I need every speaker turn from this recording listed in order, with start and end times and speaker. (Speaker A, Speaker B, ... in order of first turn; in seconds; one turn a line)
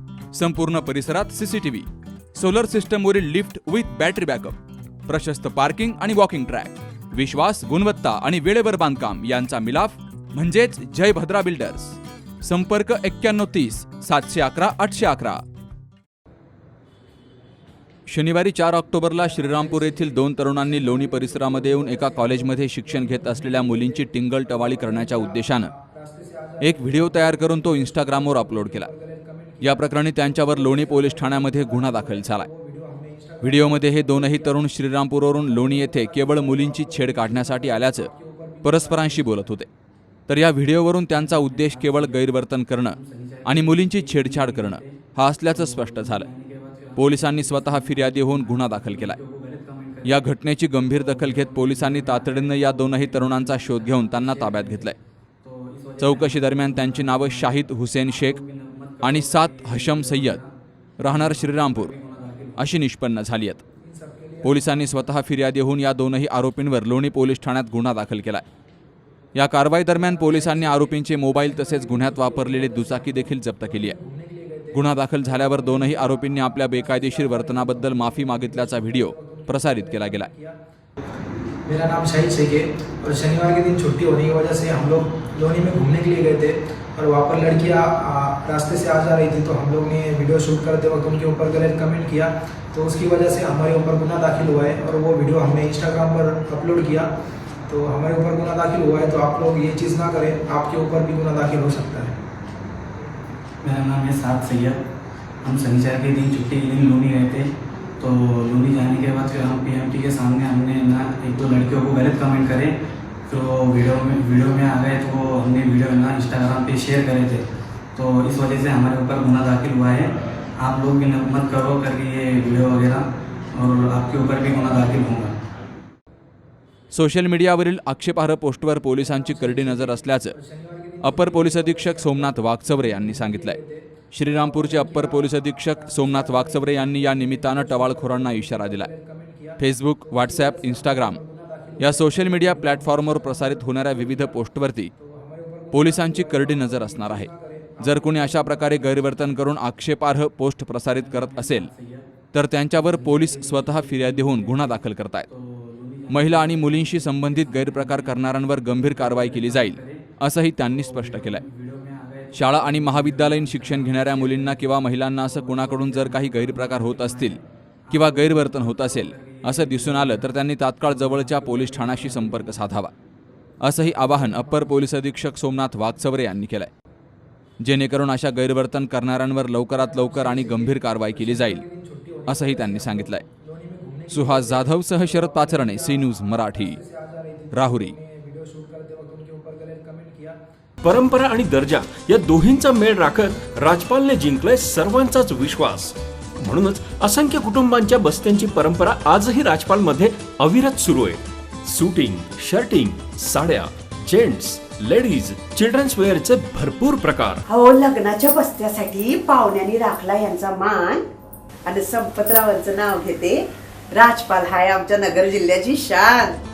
Speaker A: 0.3-15.4
Speaker A: 18.1-25.7
Speaker B: 19.1-34.6
Speaker A: 26.6-28.9
Speaker A: 29.6-32.5
Speaker A: 33.4-38.1
Speaker B: 35.4-39.5
Speaker A: 38.6-39.7
Speaker A: 40.3-46.3
Speaker C: 41.1-50.3
Speaker A: 47.0-49.2
Speaker A: 50.0-55.0
Speaker C: 50.9-60.5
Speaker A: 56.0-58.4
Speaker A: 59.0-60.4
Speaker A: 61.0-61.9
Speaker C: 61.0-62.8
Speaker A: 62.6-63.6
Speaker B: 63.8-64.8
Speaker A: 64.4-68.4
Speaker A: 69.3-74.0
Speaker B: 69.9-80.6
Speaker A: 74.7-80.3
Speaker B: 81.7-97.1
Speaker B: 97.7-102.2
Speaker C: 103.6-104.8
Speaker C: 105.4-112.8
Speaker C: 113.3-125.3
Speaker A: 126.9-130.3
Speaker B: 129.0-149.1
Speaker A: 131.0-133.6
Speaker A: 134.1-138.9
Speaker A: 139.6-141.2
Speaker A: 141.8-144.9
Speaker A: 145.7-151.7
Speaker C: 150.9-152.1
Speaker A: 152.3-155.3
Speaker C: 152.8-160.0
Speaker A: 156.1-161.4
Speaker C: 160.7-172.6
Speaker A: 162.3-167.4
Speaker A: 167.9-172.9
Speaker A: 173.6-176.7
Speaker B: 173.9-174.8
Speaker A: 177.6-181.6
Speaker B: 179.7-190.4
Speaker A: 182.3-183.2
Speaker A: 184.1-186.8
Speaker A: 187.5-187.9
Speaker D: 190.8-207.4
Speaker E: 207.5-211.1
Speaker E: 211.6-216.4